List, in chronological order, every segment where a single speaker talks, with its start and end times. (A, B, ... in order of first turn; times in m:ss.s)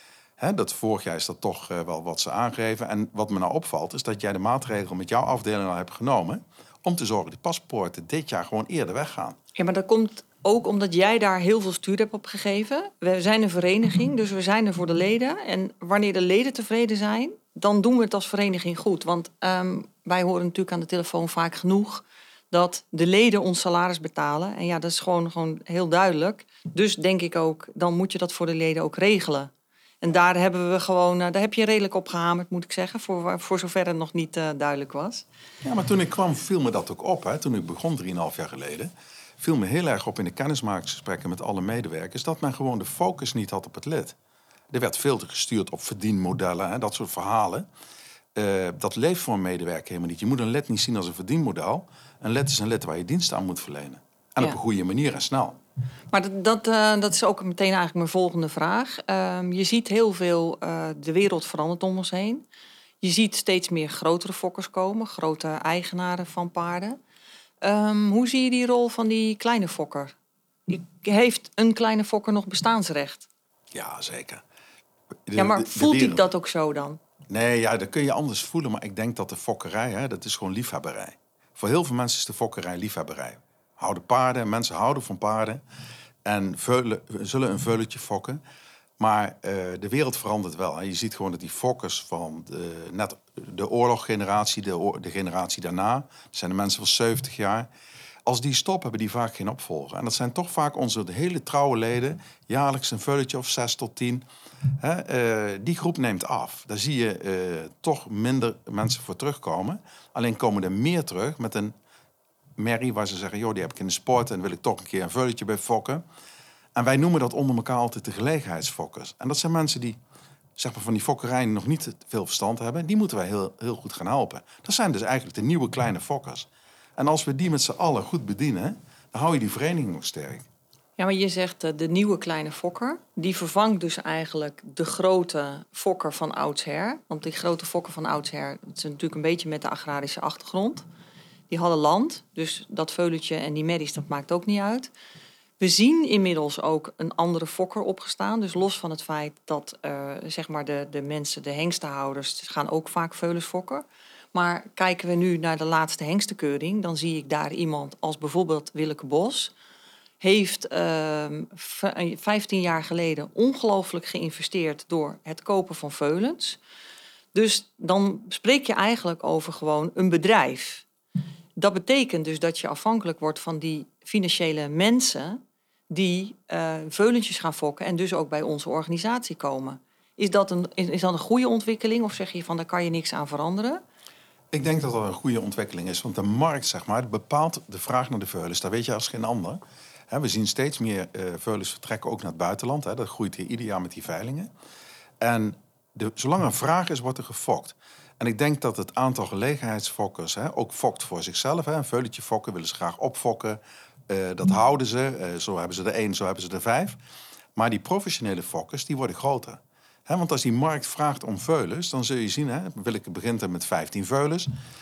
0:00.4-0:09.4 A
0:09.6-0:29.5 B
0:30.0-0:35.2 B
0:35.6-0:44.1 A
0:44.7-0:47.6 A
0:48.3-0:55.6 A
0:56.1-1:02.4 B
1:03.0-1:07.0 B
1:07.6-1:10.1 B
1:10.7-1:13.3 B
1:13.7-1:14.4 A
1:15.3-1:16.2 A
1:15.3-1:17.0 B
1:17.3-1:25.6 A
1:26.2-1:28.4 A
1:29.0-1:37.7 A
1:38.2-1:44.2 A
1:44.8-1:51.7 A
1:52.6-1:56.0 A
1:56.8-2:00.0 A
2:00.6-2:10.4 A
2:11.0-2:20.8 B
2:21.5-2:24.9 B
2:25.6-2:39.5 B
2:40.2-2:46.6 B
2:47.3-2:50.8 B
2:51.6-3:03.8 B
3:04.5-3:09.6 A
3:10.1-3:14.5 A
3:15.2-3:27.0 A
3:27.6-3:34.5 A